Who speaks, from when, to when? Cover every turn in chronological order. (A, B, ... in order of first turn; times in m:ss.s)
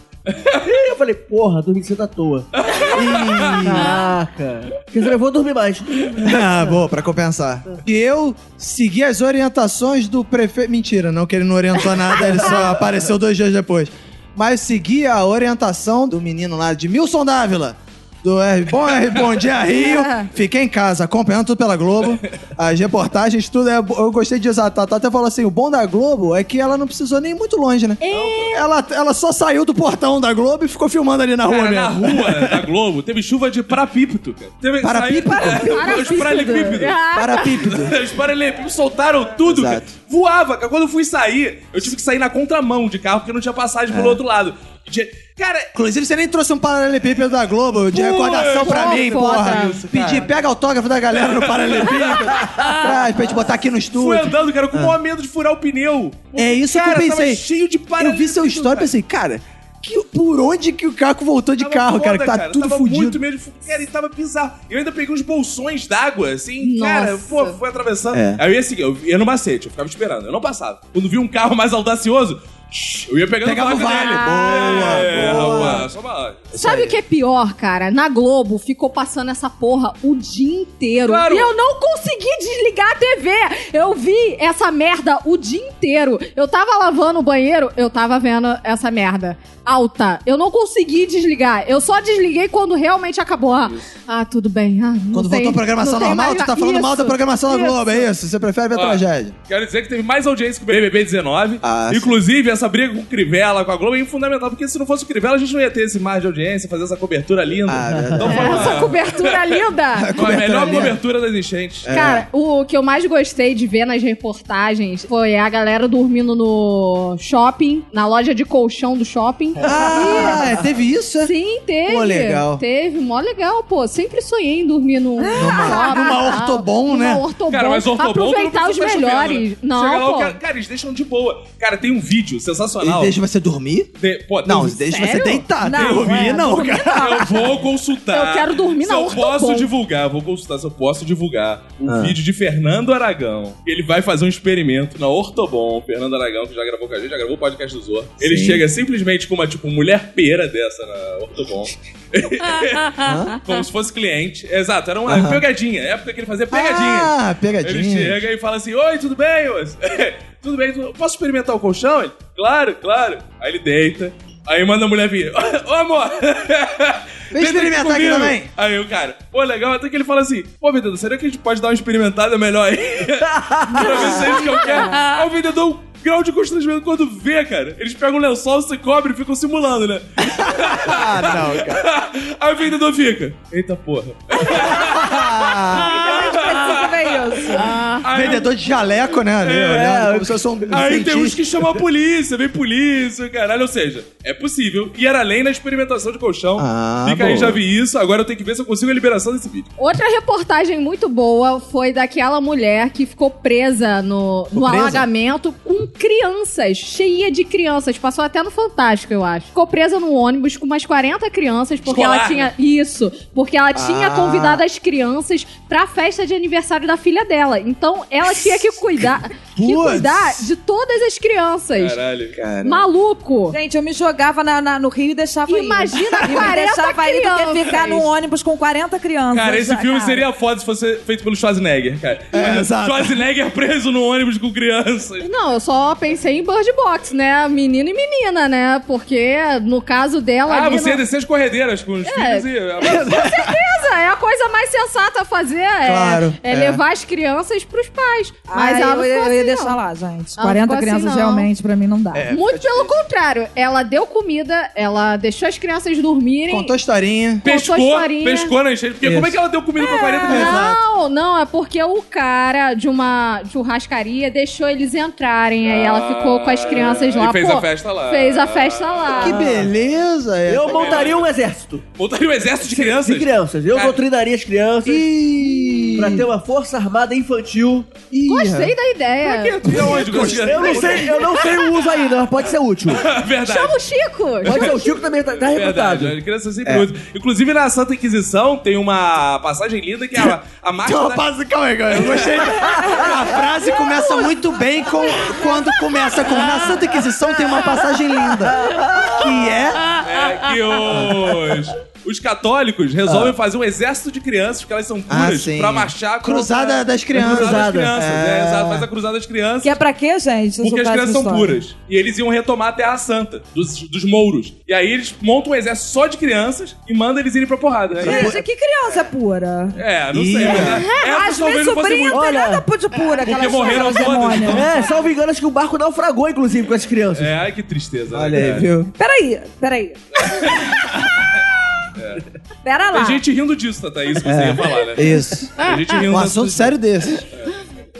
0:00.3-0:00.6 A
0:00.5-0:03.0 B
0:02.6-0:03.8 A
0:02.9-0:04.0 C
0:03.6-0:06.8 B
0:06.2-0:32.6 C
0:19.8-0:20.2 D
0:28.0-0:28.6 D
0:28.1-0:28.5 A
0:31.4-0:37.0 A
0:34.8-0:36.3 C
0:35.5-0:37.7 D
0:37.1-0:37.9 C
0:37.6-0:45.7 A
0:39.4-0:39.9 C
0:43.9-0:44.2 C
0:45.7-0:55.0 C
0:47.9-0:50.3 A
0:48.4-0:49.9 D
0:51.1-0:53.0 A
0:53.9-0:58.9 A
0:56.3-0:57.4 C
0:58.0-1:03.2 C
1:01.6-1:16.5 A
1:06.6-1:07.6 D
1:08.1-1:08.4 C
1:13.4-1:15.9 C
1:13.8-1:15.8 D
1:16.5-1:17.0 C
1:16.6-1:38.1 D
1:21.0-1:21.5 A
1:35.1-1:39.3 C
1:38.7-1:49.6 A
1:41.6-1:42.2 C
1:47.6-1:48.9 C
1:47.9-1:48.6 B
1:48.2-1:50.8 D
1:50.0-1:51.0 C
1:50.1-1:51.9 A
1:51.8-1:52.3 C
1:51.9-2:00.6 D
1:59.6-2:01.3 C
1:59.7-2:00.5 B
2:01.2-2:10.4 D
2:01.8-2:02.6 C
2:05.2-2:06.1 E
2:05.3-2:07.2 C
2:07.5-2:13.2 A
2:12.8-2:13.9 C
2:14.0-2:14.8 A
2:14.4-2:17.2 C
2:14.9-2:15.4 D
2:15.6-2:17.3 E
2:15.7-2:16.3 A
2:17.0-3:07.1 A
2:18.1-2:19.7 D
2:21.8-2:22.2 C
2:28.2-2:28.6 C
2:33.0-2:33.3 C
2:35.1-2:35.4 C
2:36.5-2:38.2 C
2:47.3-2:48.5 C
2:53.2-2:54.4 B
2:54.5-2:55.0 D
3:00.2-3:01.8 C
3:04.6-3:06.0 C
3:05.8-3:07.7 E
3:07.5-3:08.1 D
3:08.0-3:08.5 A
3:08.1-3:11.4 C
3:09.4-3:09.9 A
3:09.7-3:10.4 B
3:10.7-3:19.7 A
3:16.6-3:17.6 C
3:19.8-3:42.0 D
3:24.5-3:25.0 C
3:31.8-3:32.5 A
3:33.7-3:34.6 C
3:39.5-3:40.4 C
3:41.8-3:42.4 A
3:42.4-3:42.8 C
3:42.6-3:43.6 D
3:43.5-3:50.2 E
3:45.5-3:48.1 D
3:49.3-3:55.2 A
3:52.3-3:53.2 C
3:55.2-4:01.0 D
4:00.5-4:03.1 A
4:02.0-4:09.8 D
4:02.8-4:03.6 C
4:05.8-4:06.8 C
4:08.5-4:12.3 E
4:10.4-4:11.5 D
4:12.1-4:12.9 C
4:12.3-4:16.7 D
4:16.5-4:17.4 C
4:17.4-4:18.5 D
4:17.4-4:20.7 A
4:19.0-4:19.4 C
4:19.8-4:29.6 D
4:20.3-4:20.8 C
4:25.6-4:29.4 A
4:29.1-4:31.2 C
4:30.5-4:31.8 B
4:30.6-4:31.3 A
4:32.0-4:34.0 A
4:32.6-4:35.1 B
4:34.8-4:36.3 C
4:36.0-4:37.9 B
4:38.1-4:38.7 C
4:38.2-4:40.9 D
4:39.2-4:41.6 A
4:39.6-4:40.8 C
4:40.1-4:43.1 B
4:42.9-4:43.8 A
4:43.4-4:45.0 D
4:44.4-4:46.1 B
4:44.4-4:51.2 A
4:50.8-4:59.8 C
4:51.9-4:52.9 A
4:58.4-4:59.4 B
5:00.0-5:09.8 A
5:03.1-5:03.3 C
5:05.1-5:08.9 C
5:07.1-5:08.0 B
5:09.6-5:11.6 E
5:10.6-5:18.3 A
5:18.0-5:19.8 E
5:18.0-5:18.4 C
5:19.8-5:22.2 A
5:20.1-5:20.9 C
5:20.7-5:21.0 D
5:20.9-5:24.7 E
5:22.1-5:22.6 B
5:23.2-5:25.0 A
5:24.5-5:27.3 B
5:27.1-5:28.7 A
5:28.1-5:28.9 C
5:29.0-5:30.2 E
5:30.2-5:30.8 A
5:32.0-5:32.2 A
5:32.6-5:33.2 E
5:32.9-5:36.8 A
5:34.2-5:37.2 C